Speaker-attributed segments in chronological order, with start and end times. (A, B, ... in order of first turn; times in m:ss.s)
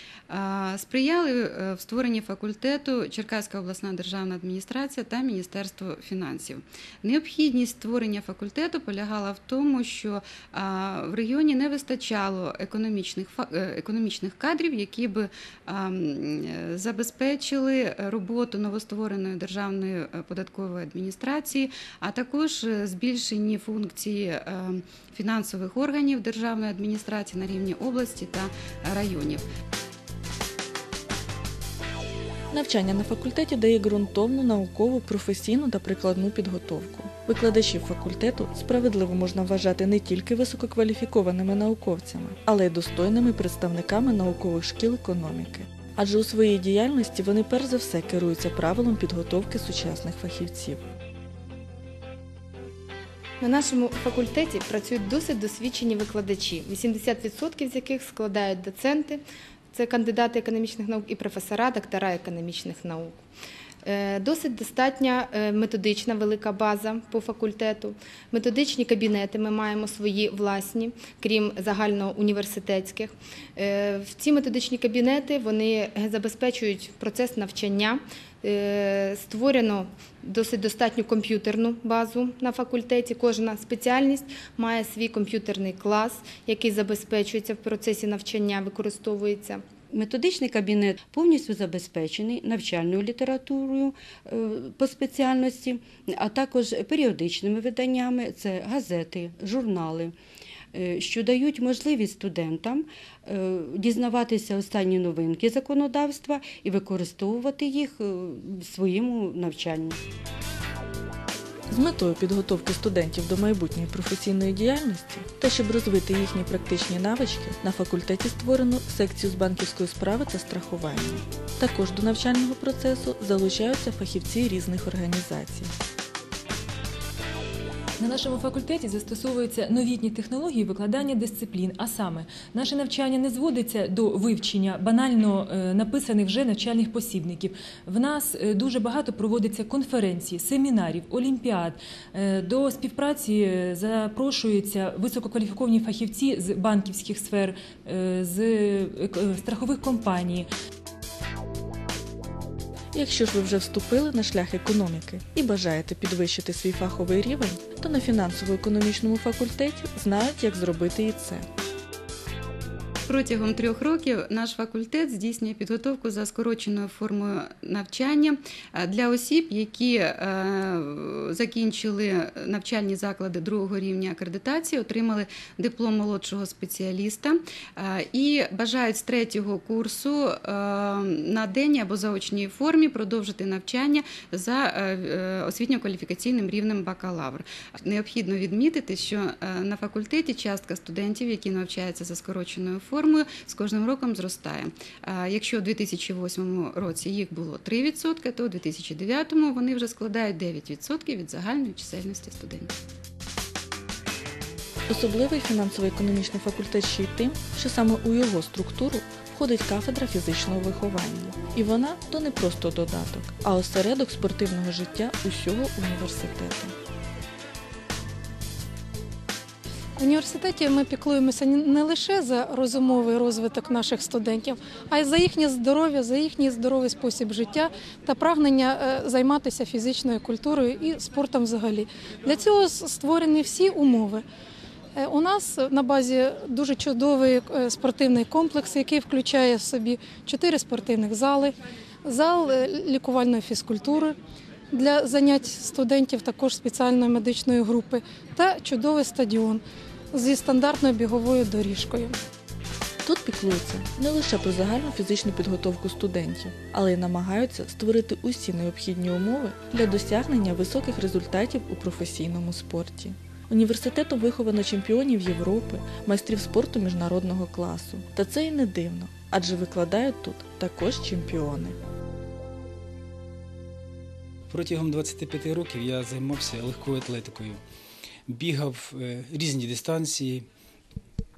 0:00.3-0:29.4 A
0:32.5-0:50.9 B
0:53.4-0:59.2 C
0:59.7-1:03.2 C
1:03.8-1:29.6 C
1:29.9-1:40.2 D
1:40.7-1:50.0 D
1:51.7-2:05.7 B
2:08.0-2:30.5 E
2:32.9-2:41.5 B
2:43.1-3:22.7 A
3:24.9-3:36.7 B
3:40.0-3:54.2 F
3:55.0-4:04.2 F
4:04.7-4:09.6 F
4:10.1-4:12.1 F
4:13.0-4:31.8 B
4:34.5-4:37.6 G
4:38.3-4:40.5 G